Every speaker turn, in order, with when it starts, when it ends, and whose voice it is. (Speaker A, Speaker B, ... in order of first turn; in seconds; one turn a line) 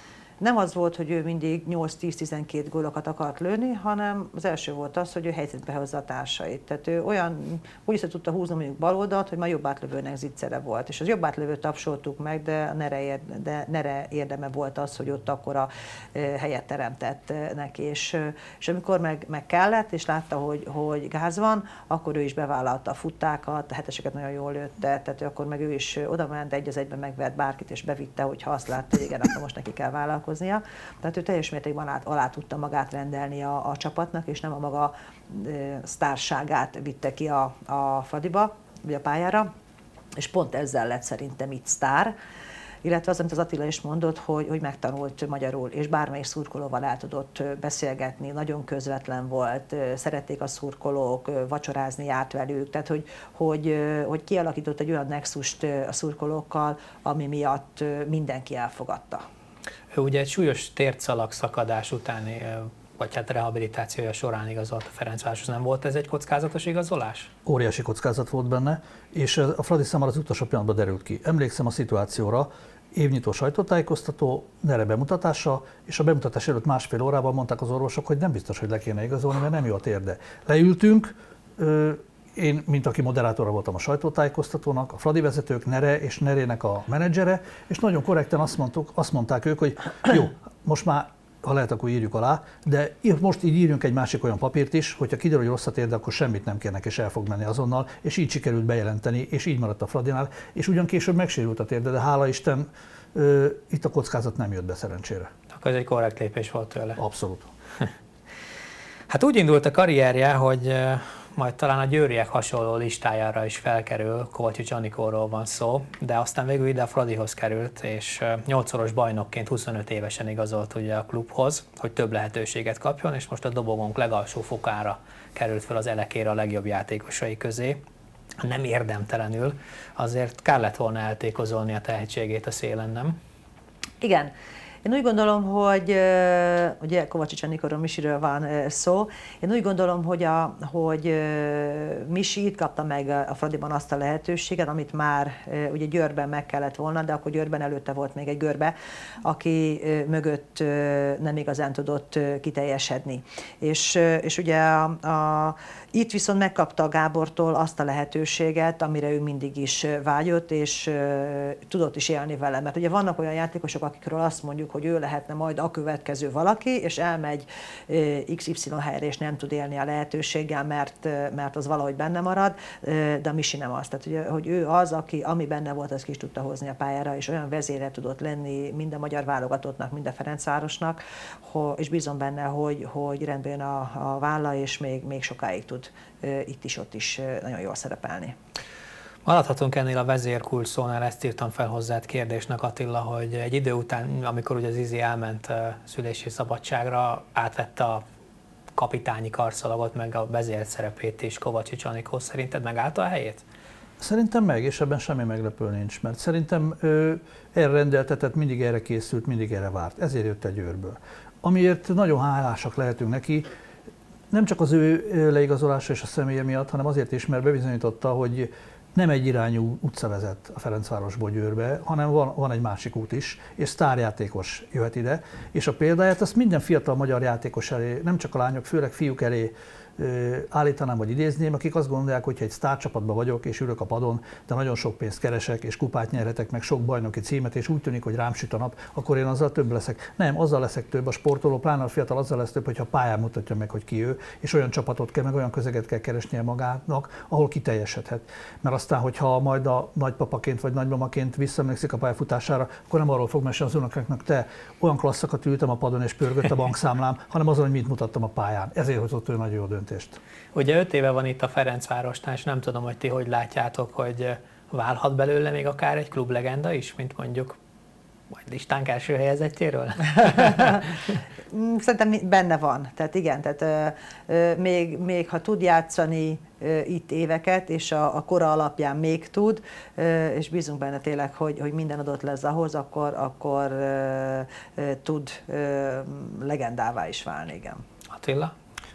Speaker A: 0.4-39.5
Speaker A: 40.1-42.1
Speaker A: 42.8-59.2
Speaker B: 59.9-67.3
Speaker C: 67.4-105.3
Speaker B: 105.5-107.0
Speaker C: 107.0-107.5
Speaker B: 109.1-127.8
Speaker B: 128.4-133.2
Speaker A: 134.0-134.3
Speaker A: 134.8-188.3
Speaker B: 189.2-198.0
Speaker B: 198.7-203.4
Speaker C: 204.0-213.5
Speaker C: 214.3-260.2
Speaker B: 260.5-267.6
Speaker B: 268.3-270.9
Speaker A: 271.5-287.8
Speaker B: 288.1-288.5